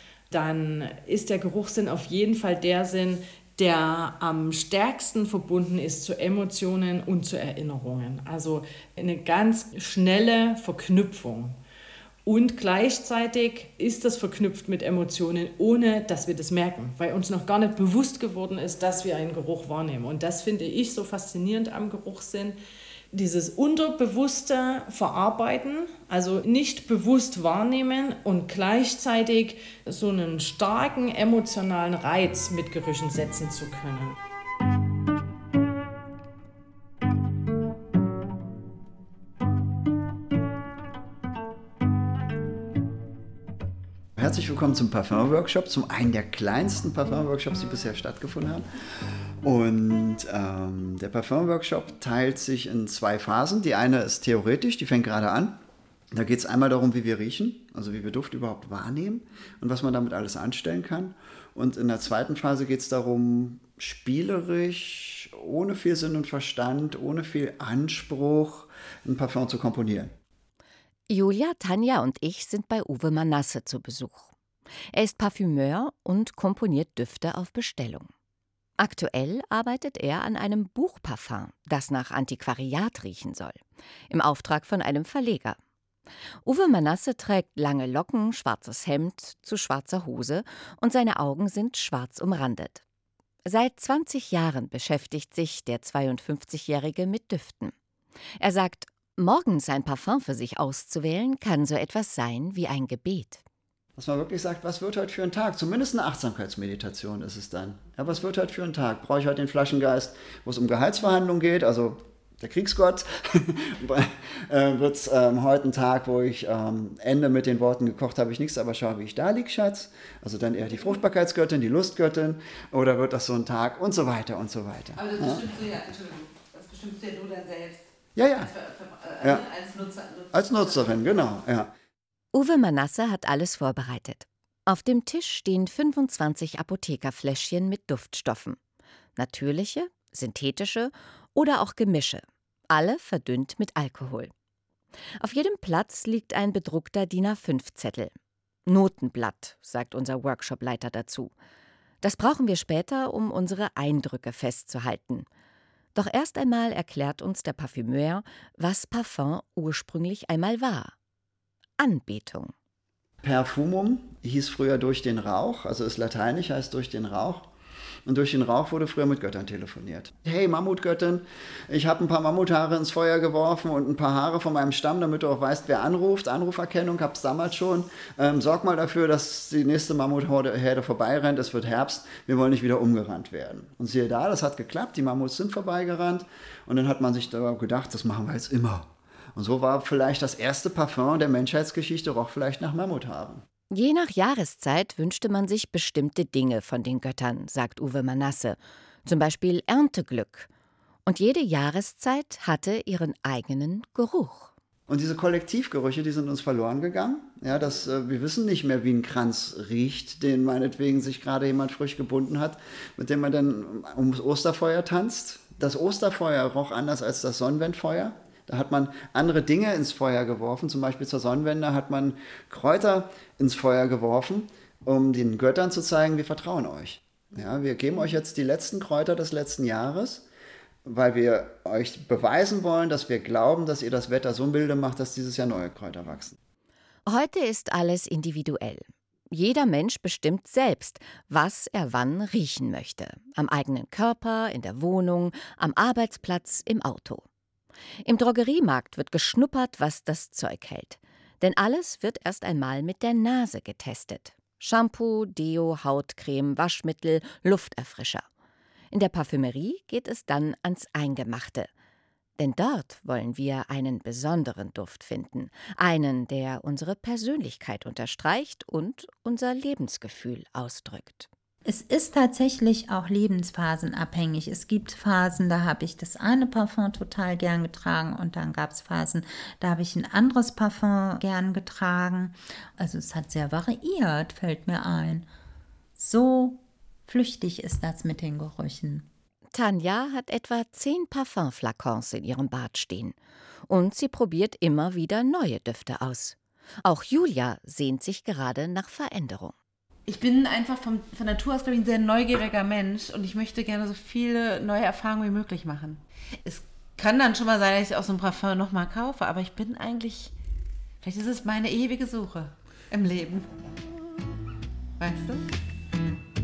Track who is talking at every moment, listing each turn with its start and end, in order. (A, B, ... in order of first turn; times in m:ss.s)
0:00.3-0:11.6 A
0:12.2-0:22.6 A
0:23.1-0:34.2 A
0:44.2-0:55.6 B
0:56.1-1:10.1 B
1:11.1-1:14.3 C
1:14.9-1:18.1 C
1:18.8-1:25.6 C
1:26.4-1:32.8 C
1:33.5-1:37.7 C
1:38.4-1:43.4 C
1:44.0-2:05.4 B
2:05.0-2:11.2 D
2:08.2-2:08.5 B
2:09.2-2:09.5 B
2:10.3-2:11.7 B
2:12.3-2:18.6 C
2:19.2-2:24.3 C
2:25.2-2:28.1 C
2:28.7-2:31.3 C
2:32.0-2:35.3 C
2:36.0-2:40.9 C
2:41.8-2:42.5 C
2:43.2-2:47.5 B
2:48.1-3:13.4 B
3:13.7-3:20.5 C
3:21.1-3:24.5 C
3:24.9-3:50.3 B
3:50.8-3:56.4 B
3:57.1-4:07.2 C
4:08.0-4:18.2 C
4:18.9-4:21.7 C
4:22.4-4:31.3 C
4:31.7-4:45.3 E
4:46.0-4:49.1 E
4:49.5-4:53.2 C
4:53.7-4:59.5 C
5:00.1-5:10.3 D
5:11.0-5:13.5 D
5:15.0-5:15.5 D